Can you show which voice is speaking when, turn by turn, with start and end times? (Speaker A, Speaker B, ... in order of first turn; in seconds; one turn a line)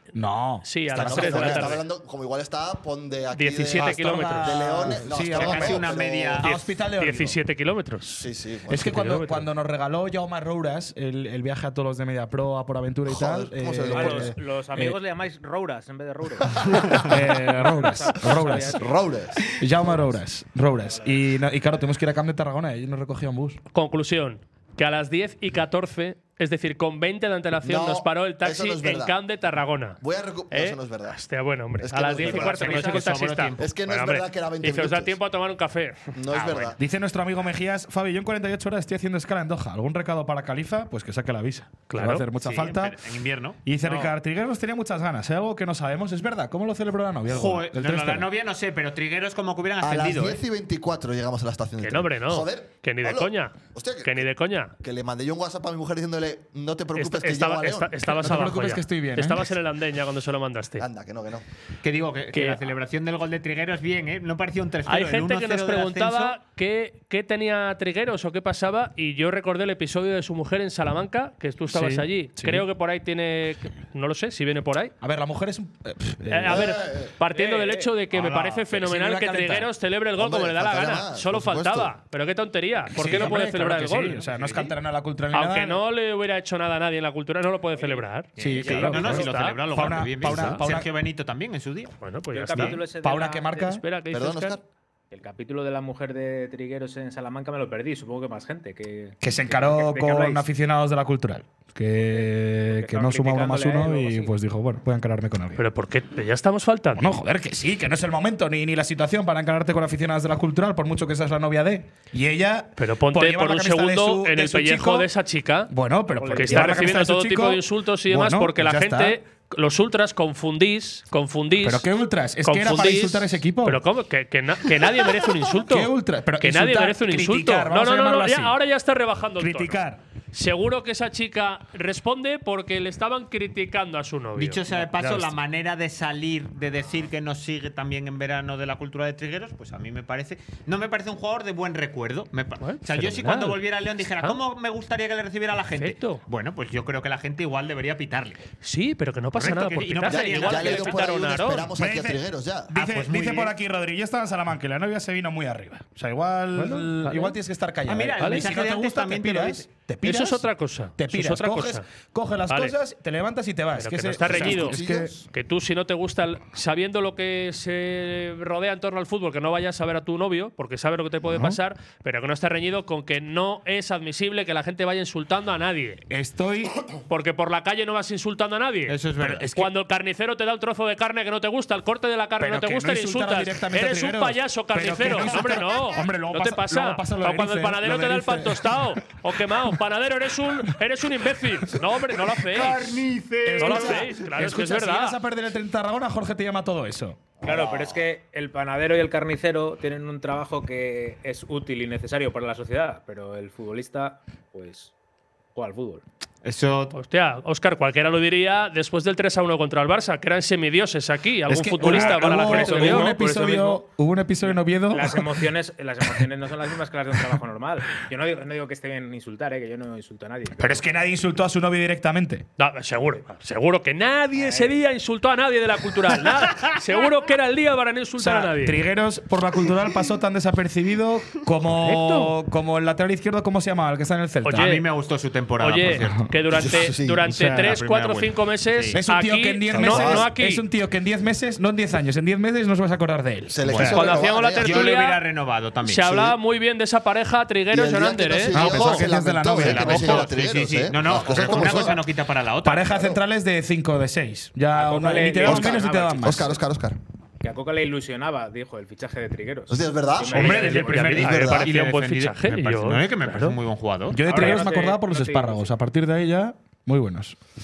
Speaker A: 0.1-1.8
Speaker B: 0.6-1.8
Speaker C: 0.9-6.5
Speaker B: 3.3-5.0
Speaker A: 3.7-7.4
Speaker D: 5.2-6.6
Speaker B: 6.5-8.2
Speaker C: 8.1-9.1
Speaker A: 8.7-15.0
Speaker B: 8.7-9.5
Speaker C: 13.1-14.4
Speaker E: 13.9-18.9
Speaker C: 16.6-17.0
Speaker A: 17.0-18.9
Speaker C: 18.3-19.6
Speaker A: 19.6-23.6
Speaker E: 19.8-20.2
Speaker E: 20.9-21.2
Speaker B: 23.7-30.0
Speaker C: 27.6-29.2
Speaker C: 30.0-31.2
Speaker B: 30.5-36.1
Speaker C: 31.8-35.2
Speaker D: 32.2-33.7
Speaker C: 36.1-36.8
Speaker D: 36.3-36.8
Speaker A: 36.8-43.0
Speaker B: 41.9-42.2
Speaker D: 42.4-43.6
Speaker A: 43.6-48.3
Speaker D: 47.3-50.4
Speaker C: 49.8-54.3
Speaker B: 51.8-54.7
Speaker C: 54.8-58.5
Speaker B: 57.0-60.9
Speaker A: 58.1-59.5
Speaker C: 60.8-61.4
Speaker D: 61.8-66.4
Speaker B: 62.3-62.6
Speaker B: 64.9-75.0
Speaker A: 71.7-72.7
Speaker A: 75.0-76.7
Speaker B: 76.3-84.2
Speaker C: 76.5-77.1
Speaker E: 77.3-77.9
Speaker A: 78.1-79.7
Speaker C: 80.2-81.9
Speaker A: 82.9-85.8
Speaker D: 84.3-84.7
Speaker B: 85.3-89.6
Speaker E: 87.8-89.2
Speaker D: 88.4-92.0
Speaker A: 88.4-90.9
Speaker B: 90.2-90.6
Speaker B: 92.0-92.8
Speaker E: 92.3-93.8
Speaker D: 92.5-92.8
Speaker A: 93.0-93.8
Speaker B: 93.7-94.6
Speaker C: 94.1-94.6
Speaker E: 95.1-100.5
Speaker A: 99.2-105.6
Speaker E: 102.0-104.3
Speaker B: 105.6-107.2
Speaker A: 107.0-115.1
Speaker B: 112.8-115.7
Speaker A: 115.7-119.2
Speaker E: 116.2-117.0
Speaker B: 116.3-121.9
Speaker A: 121.6-123.8
Speaker B: 122.4-134.9
Speaker A: 125.5-128.6
Speaker A: 129.4-130.0
Speaker D: 134.4-148.4
Speaker A: 135.0-135.3
Speaker B: 142.6-143.6
Speaker B: 145.8-146.2
Speaker B: 148.6-151.7
Speaker D: 149.3-151.2
Speaker C: 150.1-152.7
Speaker A: 151.8-165.2
Speaker D: 152.7-153.5
Speaker B: 156.6-157.3
Speaker D: 157.9-159.7
Speaker B: 158.2-158.5
Speaker B: 160.0-161.8
Speaker B: 162.5-162.8
Speaker B: 163.8-176.0
Speaker C: 164.2-165.2
Speaker A: 171.3-171.6
Speaker A: 176.1-176.8
Speaker B: 177.1-192.8
Speaker D: 178.9-179.6
Speaker A: 179.2-179.7
Speaker A: 182.4-189.0
Speaker D: 192.5-194.1
Speaker A: 193.4-197.3
Speaker B: 193.6-195.2
Speaker C: 197.4-198.0
Speaker E: 197.4-204.9
Speaker E: 205.6-206.0
Speaker D: 206.4-206.9
Speaker B: 206.9-213.1
Speaker A: 211.5-215.5
Speaker E: 211.8-213.9
Speaker E: 214.4-220.8
Speaker A: 220.6-222.4
Speaker B: 222.6-228.8
Speaker E: 224.3-224.8
Speaker A: 228.2-234.8
Speaker B: 231.8-232.3
Speaker B: 234.4-234.8
Speaker D: 234.6-236.2
Speaker B: 235.6-240.7
Speaker A: 236.0-236.3
Speaker C: 236.5-237.2
Speaker A: 237.3-237.8
Speaker D: 237.4-239.0
Speaker A: 238.9-244.1
Speaker C: 239.7-240.3
Speaker C: 243.5-244.9
Speaker D: 243.7-246.2
Speaker B: 243.9-245.2
Speaker B: 245.8-248.7
Speaker C: 247.7-252.0
Speaker A: 248.5-250.3
Speaker D: 249.5-253.0
Speaker A: 251.3-251.9
Speaker A: 252.6-256.6
Speaker E: 254.7-256.5
Speaker C: 255.2-257.0
Speaker E: 257.4-261.2
Speaker C: 259.7-261.7
Speaker A: 260.3-261.4
Speaker B: 260.3-263.6
Speaker D: 261.0-264.2
Speaker A: 264.1-267.4
Speaker E: 264.2-265.7